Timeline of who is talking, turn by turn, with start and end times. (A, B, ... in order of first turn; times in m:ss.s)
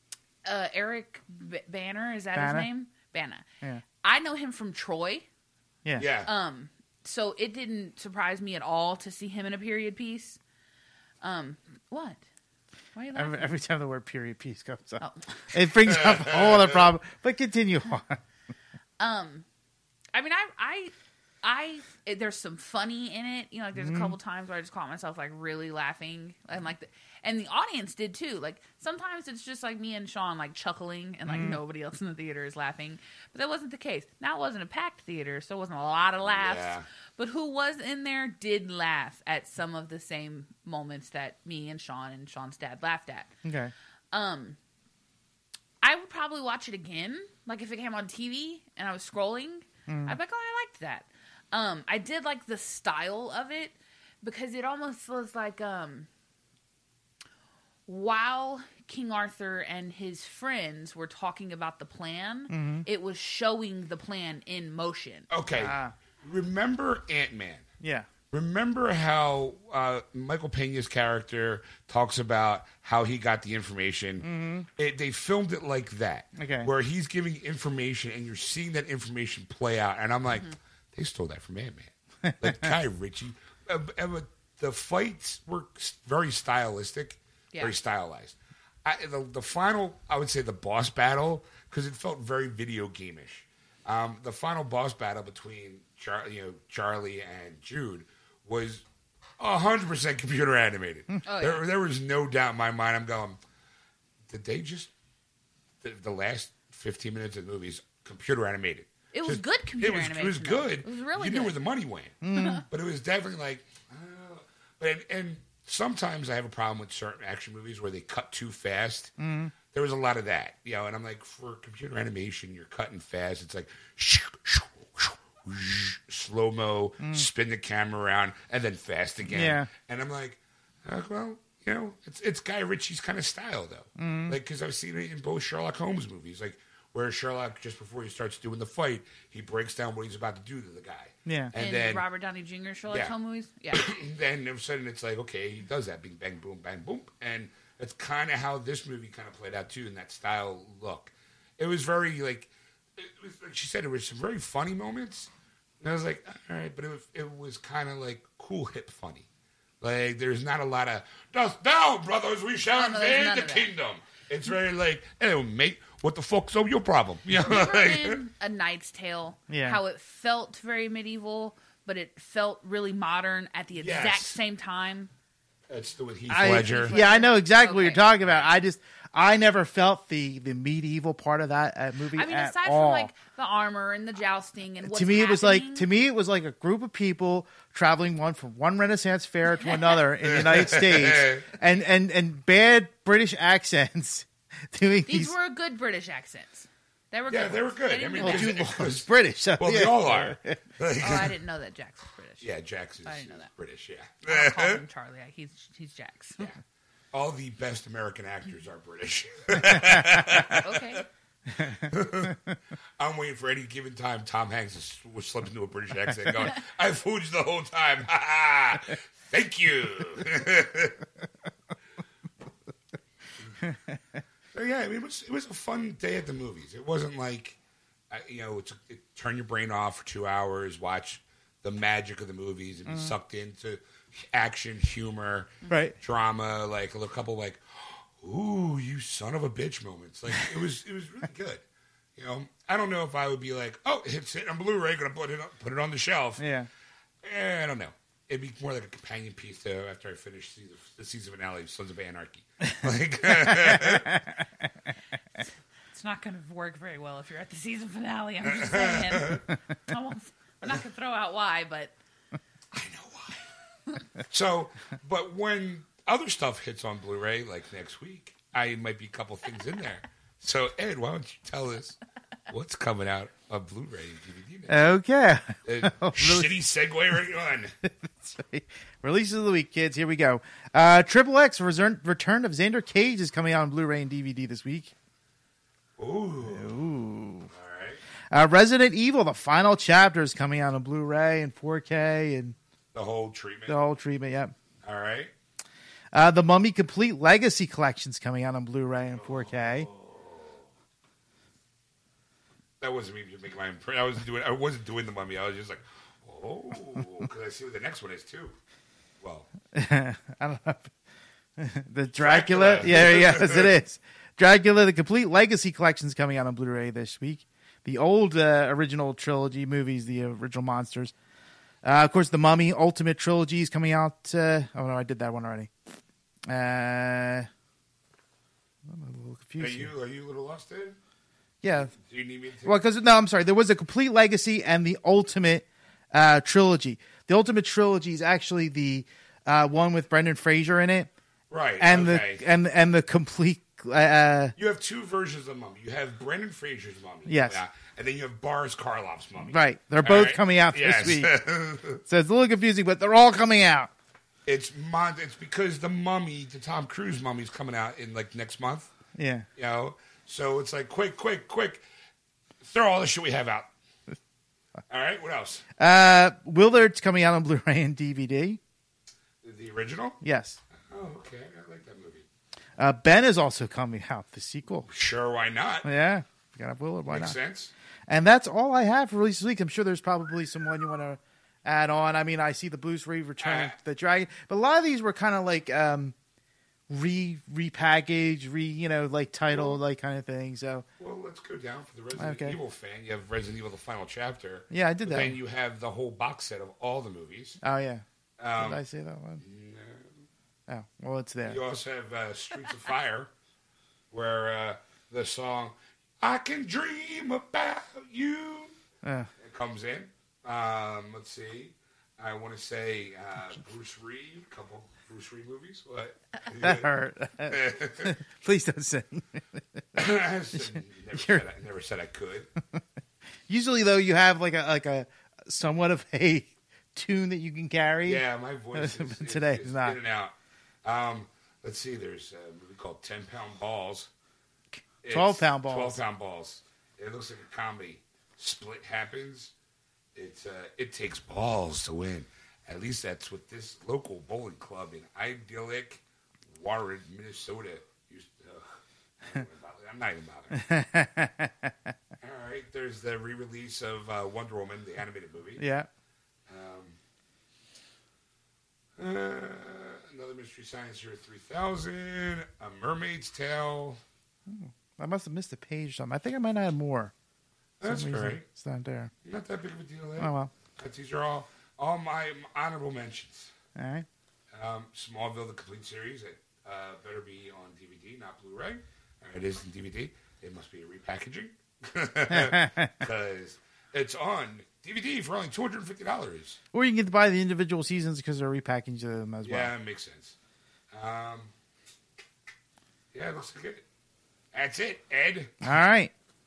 0:00.4-0:03.4 A
0:02.3-0:02.7 B
0:04.0-0:05.3 A
0:06.0-0:06.3 C
0:06.2-0:10.4 A
0:11.2-0:12.2 A
0:12.9-0:13.5 A
0:13.1-0:18.2 B
0:15.0-0:15.5 A
0:15.8-0:16.9 C
0:19.0-0:19.4 A
0:20.1-0:43.3 A
0:23.8-0:24.2 B
0:31.3-0:31.6 B
0:36.2-0:36.8 C
0:43.4-0:43.7 B
0:44.1-0:44.6 A
0:45.8-0:56.1 A
0:49.9-0:50.2 B
0:57.9-1:05.3 A
1:02.5-1:02.8 B
1:05.3-1:07.6 C
1:05.5-1:05.9 B
1:07.8-1:08.1 B
1:08.3-1:38.8 C
1:14.2-1:14.7 B
1:16.4-1:16.7 B
1:22.2-1:22.7 B
1:39.4-1:43.4 C
1:41.2-1:41.6 A
1:44.3-1:44.9 C
1:45.8-1:59.1 C
1:49.1-1:51.5 A
1:52.2-1:52.6 B
1:52.3-1:52.6 A
1:59.2-1:59.5 B
1:59.7-2:22.0 C
2:07.0-2:07.3 B
2:09.3-2:09.7 B
2:14.0-2:14.4 B
2:21.2-2:21.5 B
2:21.6-2:23.9 A
2:23.7-2:35.3 C
2:35.8-2:39.3 C
2:39.8-2:48.2 C
2:42.7-2:43.7 A
2:47.4-2:55.1 A
2:49.5-2:49.8 B
2:53.8-2:54.4 C
2:55.7-2:57.0 C
2:56.3-3:03.1 B
2:56.4-2:58.0 A
3:02.1-3:05.9 A
3:04.8-3:15.3 B
3:10.2-3:11.5 C
3:15.0-3:18.6 A
3:17.3-3:21.3 C
3:18.2-3:20.6 B
3:21.0-3:22.5 A
3:22.4-3:24.8 C
3:23.0-3:23.5 A
3:24.2-3:26.5 A
3:27.1-3:31.0 C
3:29.6-3:30.4 B
3:30.5-3:31.0 A
3:31.5-3:32.5 B
3:31.8-3:32.4 C
3:33.0-3:41.0 C
3:43.6-3:44.2 B
3:44.5-3:47.6 C
3:48.1-4:01.6 C
3:52.8-3:53.1 B
3:55.7-3:56.0 B
4:02.2-4:06.4 C
4:06.4-4:06.7 B
4:07.2-4:14.1 C
4:13.2-4:14.4 B
4:15.9-4:21.9 A
4:18.4-4:19.4 C
4:22.7-4:23.5 C
4:24.2-4:32.0 C
4:32.5-4:35.0 C
4:34.7-4:36.5 B
4:35.6-4:37.7 C
4:37.8-4:44.9 B
4:46.0-4:46.8 C
4:46.4-4:47.5 B
4:47.5-4:48.0 C
4:48.3-4:52.6 B
4:52.9-4:53.8 C
4:53.7-4:54.5 B
4:54.8-4:55.3 C
4:56.1-4:59.9 B
4:59.1-5:00.7 C
5:02.8-5:08.5 C
5:09.2-5:09.5 C
5:09.7-5:10.9 B
5:11.6-5:21.1 B
5:12.2-5:13.8 C
5:21.8-5:25.7 B
5:26.5-5:27.5 B
5:28.8-5:29.9 B
5:29.6-5:31.0 C
5:31.6-5:31.9 B
5:31.7-5:32.8 C
5:32.6-5:41.1 B
5:41.5-5:42.4 C
5:41.8-5:44.5 B
5:44.6-5:52.0 C
5:47.2-5:47.6 B
5:49.5-5:51.3 B
5:52.0-5:53.9 B
5:54.4-5:58.9 C
5:59.2-5:59.4 B
5:59.6-6:01.8 C
6:02.6-6:03.7 C
6:04.9-6:05.6 C
6:05.8-6:08.6 B
6:09.4-6:10.2 C
6:10.2-6:10.6 B
6:10.9-6:12.2 C
6:12.8-6:14.9 B
6:14.9-6:15.9 C
6:15.8-6:17.4 B
6:17.0-6:17.7 C
6:18.1-6:26.1 B
6:23.4-6:23.7 C
6:26.9-6:30.8 B
6:29.5-6:29.8 C
6:31.0-6:37.6 C
6:32.2-6:32.6 B
6:34.7-6:35.4 B
6:37.6-6:38.0 B
6:38.4-6:38.8 C
6:38.6-6:39.4 B
6:39.4-6:40.2 C
6:40.7-6:41.6 B
6:41.4-6:43.3 C
6:44.1-6:48.7 C
6:49.0-6:49.3 B
6:49.4-6:56.9 C
6:56.6-7:01.4 B
6:57.4-6:58.2 C
6:59.9-7:02.5 C
7:03.5-7:08.2 B
7:08.0-7:10.3 C
7:08.7-7:10.0 B
7:10.8-7:14.1 C
7:15.0-7:19.5 C
7:15.1-7:16.0 B
7:20.1-7:30.6 C
7:30.5-7:31.9 B
7:32.2-7:35.6 C
7:35.6-7:35.9 B
7:36.5-7:37.0 C
7:39.0-7:44.0 C
7:44.5-7:47.1 B
7:47.8-7:48.4 C
7:47.8-7:49.1 B
7:49.2-7:53.5 C
7:50.2-7:50.5 B
7:53.7-7:54.0 B
7:54.5-8:06.6 C
8:02.3-8:02.9 B
8:06.7-8:09.7 B
8:09.4-8:10.4 C
8:10.9-8:11.5 C
8:13.1-8:13.8 C
8:14.5-8:15.7 C
8:15.6-8:16.1 B